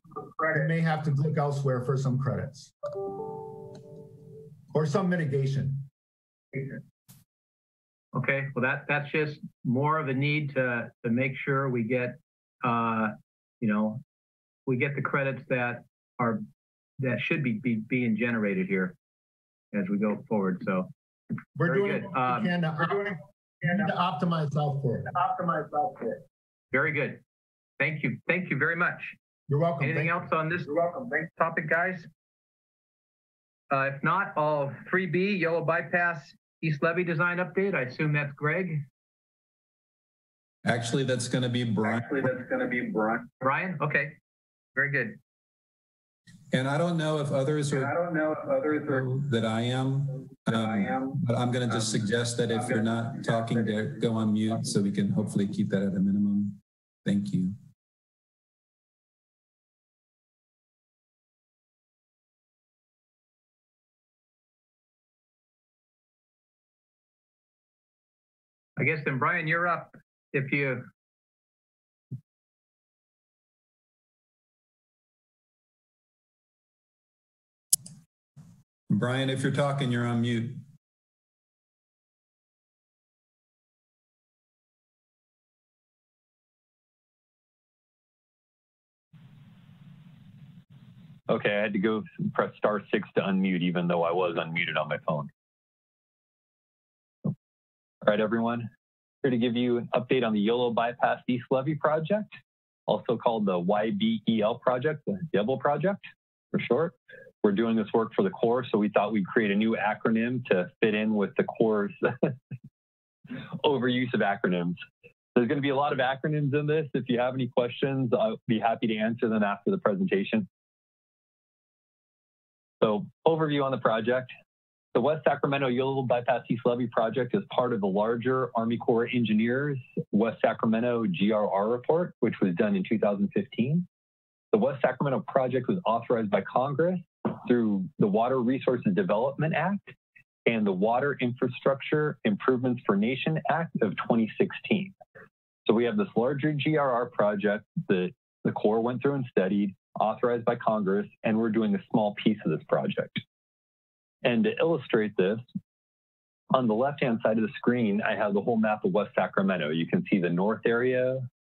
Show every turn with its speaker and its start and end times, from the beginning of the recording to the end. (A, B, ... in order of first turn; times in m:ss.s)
0:00.5-0:03.7 A
0:04.7-0:05.8 A
0:08.1-0:14.0 B
0:14.6-0:16.4 B
0:17.0-0:19.0 B
0:19.7-0:20.9 B
0:21.6-0:25.4 A
0:21.6-0:22.5 B
0:26.7-0:27.2 B
0:27.8-0:29.2 B
0:29.5-0:30.2 A
0:29.8-0:32.1 B
0:33.7-0:38.8 B
0:40.6-0:42.3 C
0:43.4-0:44.2 B
0:44.7-0:45.2 B
0:46.5-0:48.0 C
0:48.6-0:57.6 C
1:08.8-1:10.9 B
1:18.9-1:20.6 C
1:31.3-1:35.3 D
1:38.0-1:38.7 D
1:39.2-1:52.3 D
1:53.3-1:54.8 D
1:55.3-2:00.5 D
2:02.8-2:04.3 D
2:04.9-2:13.9 D
2:14.5-2:19.9 D
2:20.4-2:24.9 D
2:25.6-2:33.2 D
2:34.2-2:35.4 D
2:36.5-2:41.3 D